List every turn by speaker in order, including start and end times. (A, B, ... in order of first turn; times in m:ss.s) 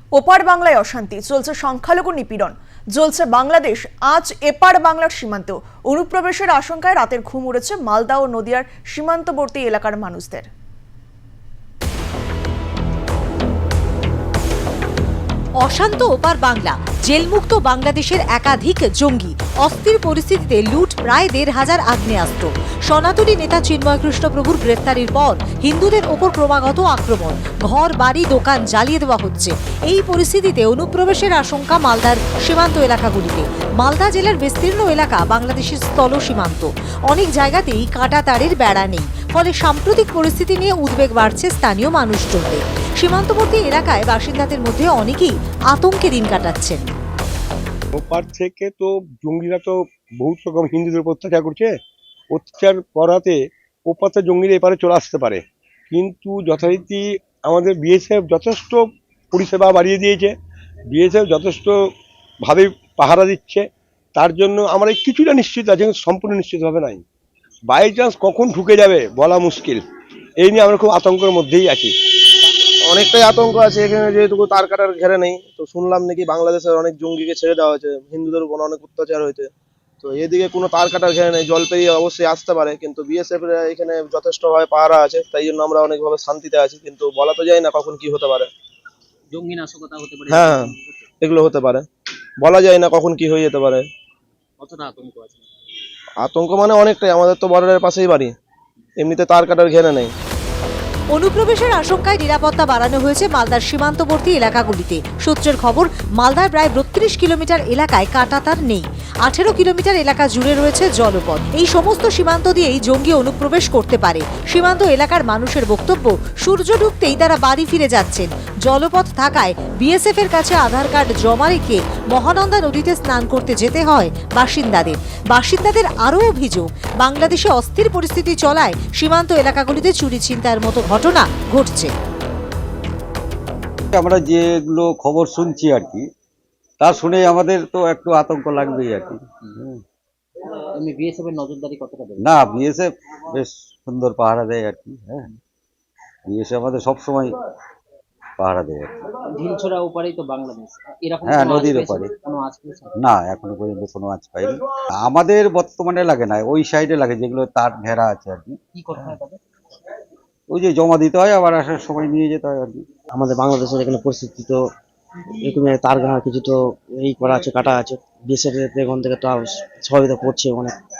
0:00.1-0:10.4 A
0:15.6-0:46.8 B
0:47.9-0:51.7 C
0:52.3-1:00.3 C
1:00.9-1:01.9 C
1:02.4-1:07.0 C
1:07.7-1:09.8 C
1:10.4-1:12.0 C
1:12.9-1:19.5 D
1:20.0-1:28.5 D
1:29.3-1:31.1 E
1:30.3-1:30.6 D
1:31.2-1:31.8 D
1:32.4-1:33.8 D
1:34.6-1:35.5 E
1:36.2-1:38.3 D
1:39.0-1:40.1 D
1:41.1-2:11.9 B
2:13.9-2:16.0 F
2:16.8-2:19.8 F
2:20.7-2:22.2 E
2:22.2-2:25.3 F
2:26.3-2:27.3 F
2:28.4-2:28.9 F
2:29.2-2:33.0 E
2:31.2-2:32.1 F
2:33.0-2:38.6 F
2:38.7-2:39.4 E
2:40.5-2:42.8 F
2:43.1-2:44.6 G
2:45.4-2:50.7 G